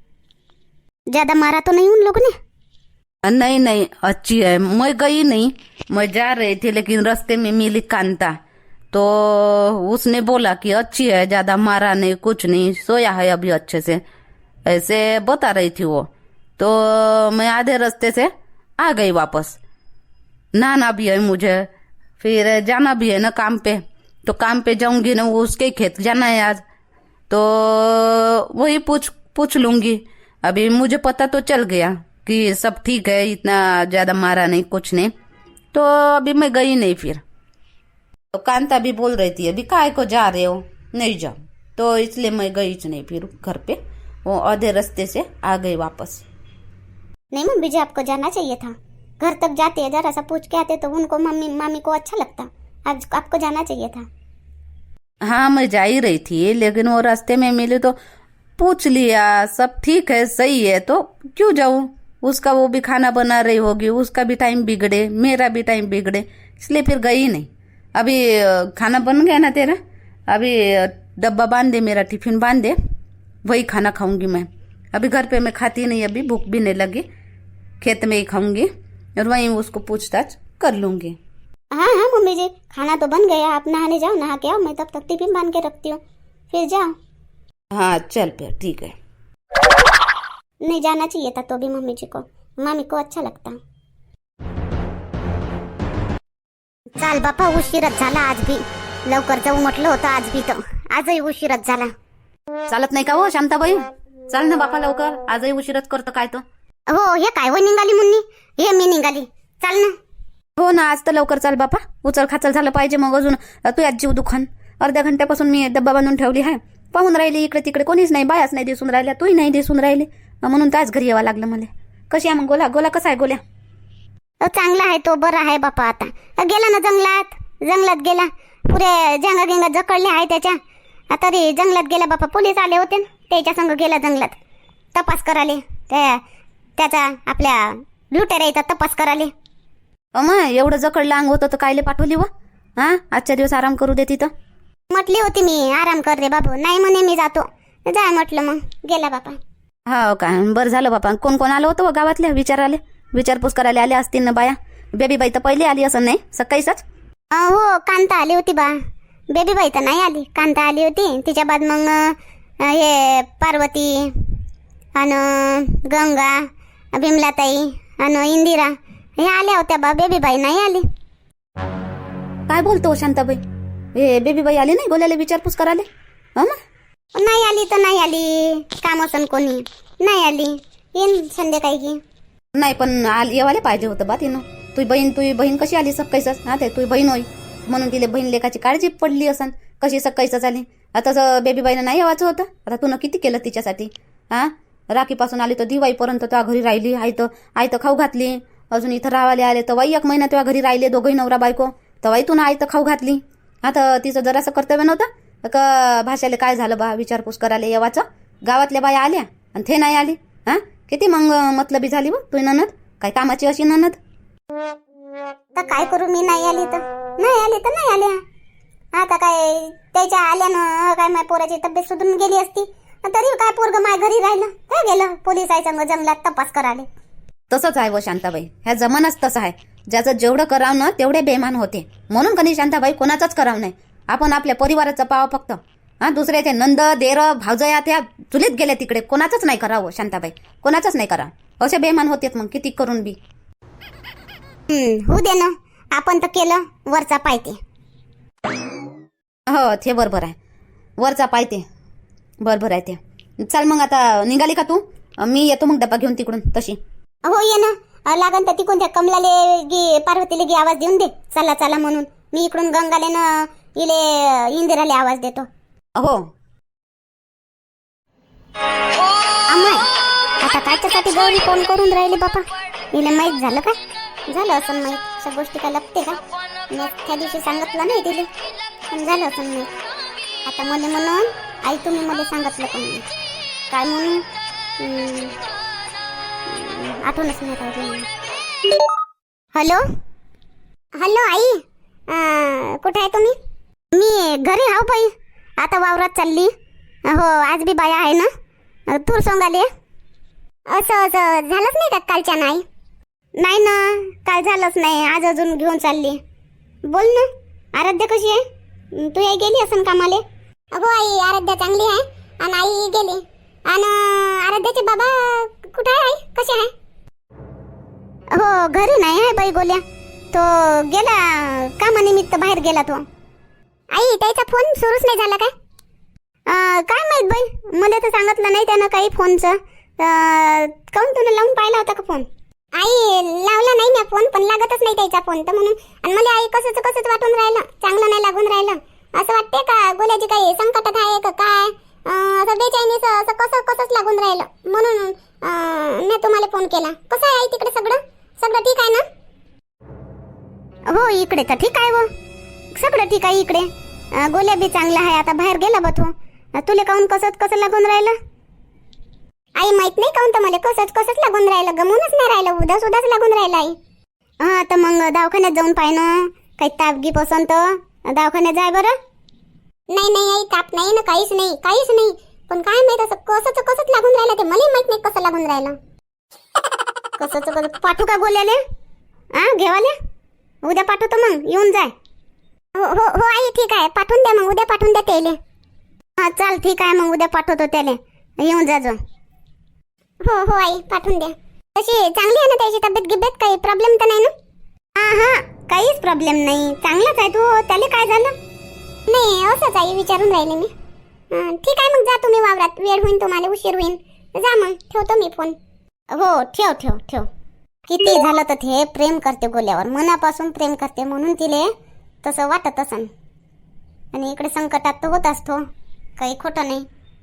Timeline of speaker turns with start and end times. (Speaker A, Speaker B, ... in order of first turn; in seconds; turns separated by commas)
Speaker A: 1.1-2.3, Speaker B: 3.2-8.3, Speaker B: 8.9-14.0, Speaker B: 14.7-19.6, Speaker B: 20.5-26.6, Speaker B: 27.3-35.1, Speaker B: 35.7-37.2, Speaker B: 38.3-46.2, Speaker A: 47.3-54.0, Speaker B: 55.2-58.0, Speaker B: 58.6-72.7, Speaker B: 73.4-77.0, Speaker B: 77.8-81.2, Speaker A: 81.7-86.0, Speaker A: 86.5-86.9, Speaker B: 87.7-88.9, Speaker A: 90.6-93.6, Speaker A: 97.0-101.9, Speaker B: 102.7-106.4, Speaker A: 106.9-109.9, Speaker B: 110.6-123.4, Speaker A: 124.4-130.6, Speaker A: 131.1-134.4, Speaker A: 134.9-136.2, Speaker A: 136.8-139.3, Speaker B: 140.1-144.3, Speaker A: 144.9-149.4, Speaker B: 149.9-156.8, Speaker A: 157.3-158.7, Speaker A: 159.3-164.1, Speaker A: 164.9-170.8, Speaker B: 172.5-173.4, Speaker B: 173.9-175.8, Speaker A: 177.2-182.0, Speaker B: 182.5-214.0, Speaker A: 215.5-218.2, Speaker A: 218.9-226.8, Speaker B: 227.5-243.2, Speaker A: 244.7-247.6, Speaker B: 249.5-250.3, Speaker B: 251.0-251.6, Speaker B: 252.4-256.8, Speaker A: 257.2-265.5, Speaker A: 269.5-269.8, Speaker A: 270.4-273.8, Speaker A: 274.3-276.2, Speaker A: 276.7-278.3, Speaker A: 278.9-279.7, Speaker A: 280.4-283.0, Speaker A: 283.7-284.2, Speaker A: 284.8-285.3, Speaker A: 286.5-288.1, Speaker A: 289.5-289.8, Speaker A: 291.0-293.3, Speaker A: 293.9-296.5, Speaker A: 297.1-298.3, Speaker A: 298.9-299.7, Speaker A: 300.7-302.6, Speaker A: 303.4-306.2, Speaker A: 306.9-308.4, Speaker A: 309.0-310.2, Speaker A: 310.7-316.7, Speaker A: 318.3-323.0, Speaker A: 323.9-325.5, Speaker A: 326.5-332.2, Speaker A: 332.8-349.0, Speaker A: 350.9-352.1, Speaker A: 352.7-358.1, Speaker A: 359.6-363.7, Speaker A: 364.4-368.9, Speaker A: 369.9-375.8, Speaker A: 377.2-378.6, Speaker A: 379.3-379.9, Speaker A: 380.6-381.9, Speaker A: 382.8-385.4, Speaker A: 386.2-389.0, Speaker A: 390.2-394.3, Speaker A: 394.9-398.3, Speaker A: 399.1-400.7, Speaker A: 401.3-405.5, Speaker A: 406.1-407.3, Speaker A: 407.9-411.7, Speaker A: 412.2-413.1, Speaker A: 414.1-415.6, Speaker A: 416.2-416.8